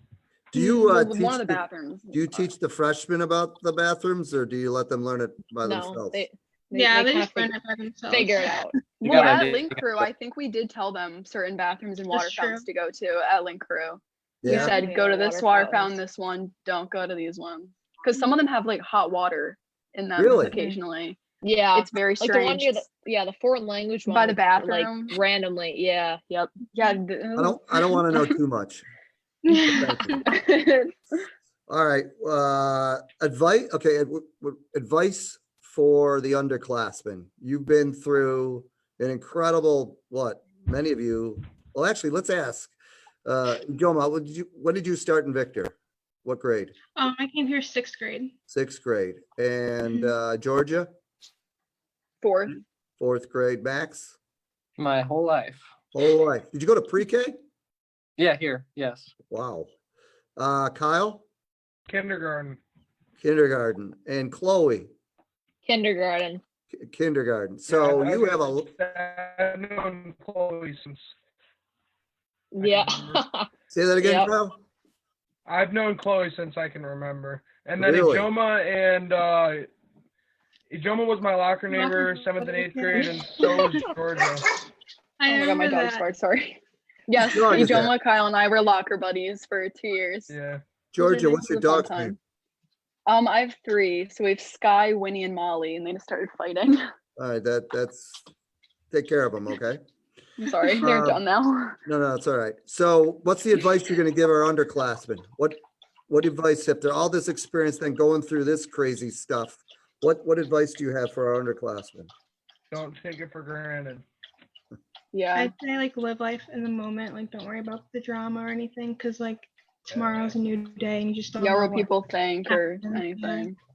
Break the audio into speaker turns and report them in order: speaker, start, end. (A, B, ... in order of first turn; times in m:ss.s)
0:00.5-0:06.2 A
0:00.5-0:02.5 B
0:05.6-0:07.5 C
0:06.7-0:08.8 D
0:08.1-0:08.8 C
0:09.0-0:21.2 B
0:09.0-0:10.1 E
0:12.1-0:12.7 D
0:14.4-0:14.7 A
0:14.5-0:14.7 D
0:14.5-0:16.0 C
0:20.2-0:20.6 A
0:20.5-0:20.8 D
0:21.4-0:26.5 C
0:21.7-0:22.8 B
0:24.1-0:25.2 B
0:26.7-0:28.3 B
0:27.4-0:28.8 A
0:29.5-0:29.8 D
0:29.7-0:30.2 A
0:30.3-0:31.2 B
0:31.7-0:42.7 A
0:43.2-0:46.7 A
0:47.0-0:48.3 D
0:48.5-0:50.9 A
0:49.8-0:50.1 D
0:52.2-0:52.6 B
0:53.0-0:54.2 A
0:54.8-0:55.7 E
0:55.9-0:57.4 A
0:58.2-0:59.1 E
0:59.3-0:59.7 A
1:00.4-1:01.2 A
1:01.9-1:02.6 F
1:03.2-1:04.9 A
1:05.6-1:06.4 C
1:06.7-1:08.7 A
1:07.7-1:11.0 F
1:12.5-1:13.5 C
1:12.6-1:13.2 F
1:13.7-1:14.6 A
1:14.0-1:14.3 C
1:15.4-1:19.7 F
1:17.8-1:18.3 A
1:20.7-1:24.4 F
1:21.7-1:23.9 D
1:25.2-1:26.1 D
1:25.3-1:30.3 B
1:27.3-1:27.9 A
1:30.3-1:30.6 F
1:30.9-1:32.2 A
1:31.0-1:32.1 B
1:33.0-1:36.8 B
1:37.2-1:38.2 A
1:38.9-1:39.8 A
1:40.4-1:41.8 B
1:40.8-1:41.2 A
1:41.8-1:52.1 A
1:52.7-1:54.0 F
1:55.1-1:55.5 B
1:55.3-2:01.9 D
1:59.9-2:00.4 F
2:01.4-2:03.6 B
2:02.5-2:03.5 D